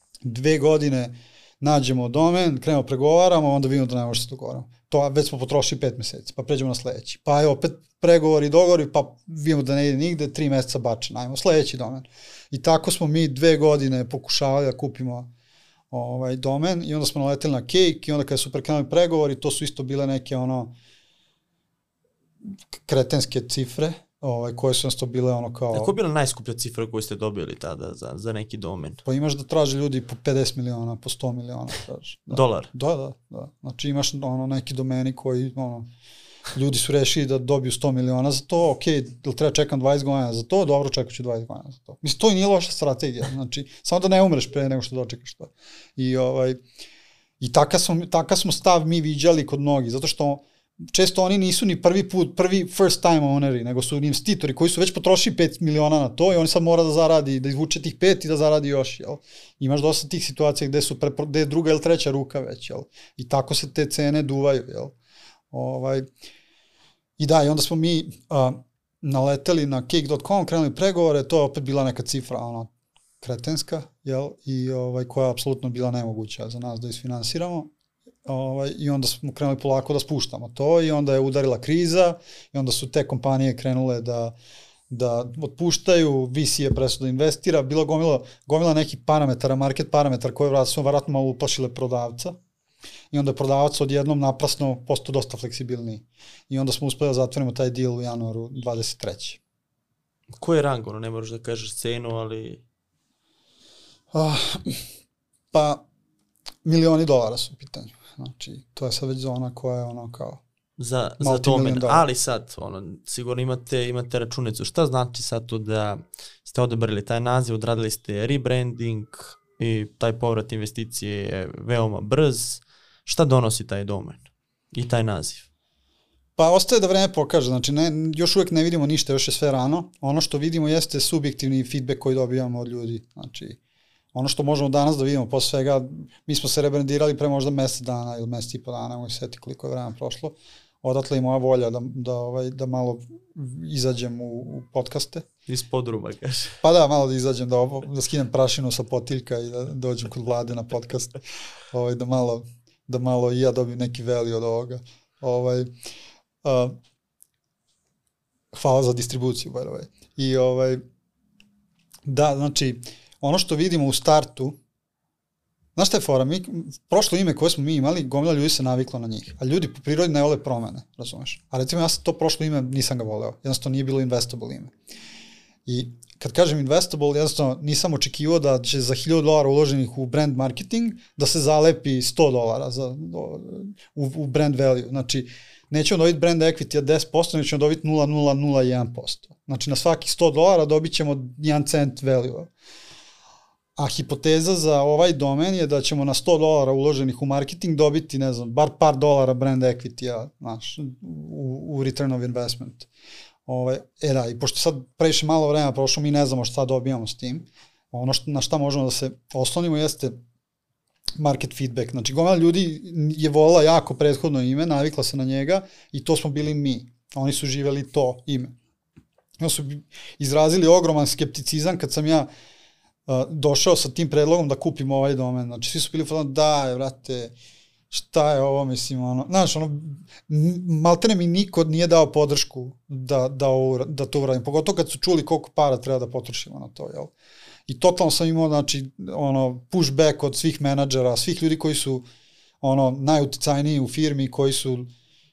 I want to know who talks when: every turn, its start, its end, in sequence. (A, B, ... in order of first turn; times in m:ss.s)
0:00.2-0:15.3 A
0:15.9-0:20.8 A
0:22.8-0:25.9 A
0:25.7-0:29.0 B
0:29.1-0:35.9 A
0:32.3-0:32.7 B
0:36.6-0:46.6 A
0:47.4-1:04.9 A
1:05.5-1:06.1 A
1:07.2-1:12.7 A
1:13.2-1:17.7 A
1:18.3-1:24.4 A
1:24.9-1:32.4 A
1:33.1-1:39.4 A
1:40.4-1:42.6 B
1:44.1-1:44.8 A
1:45.5-1:45.8 A
1:46.6-1:50.4 A
1:50.8-2:05.5 B
1:51.2-1:52.1 A
2:06.4-2:13.6 A
2:14.1-2:25.3 A
2:25.5-2:26.5 B
2:26.6-2:31.2 A
2:31.7-2:35.7 A
2:36.4-2:36.8 A
2:38.5-2:40.8 A
2:42.1-2:44.6 A
2:45.8-2:54.7 A
2:55.7-3:12.5 A
3:13.8-3:22.9 A
3:23.5-3:30.2 A
3:31.2-3:38.6 A
3:39.4-3:42.3 A
3:43.1-3:47.3 A
3:47.9-3:57.1 A
3:57.7-4:02.1 A
4:02.6-4:04.9 A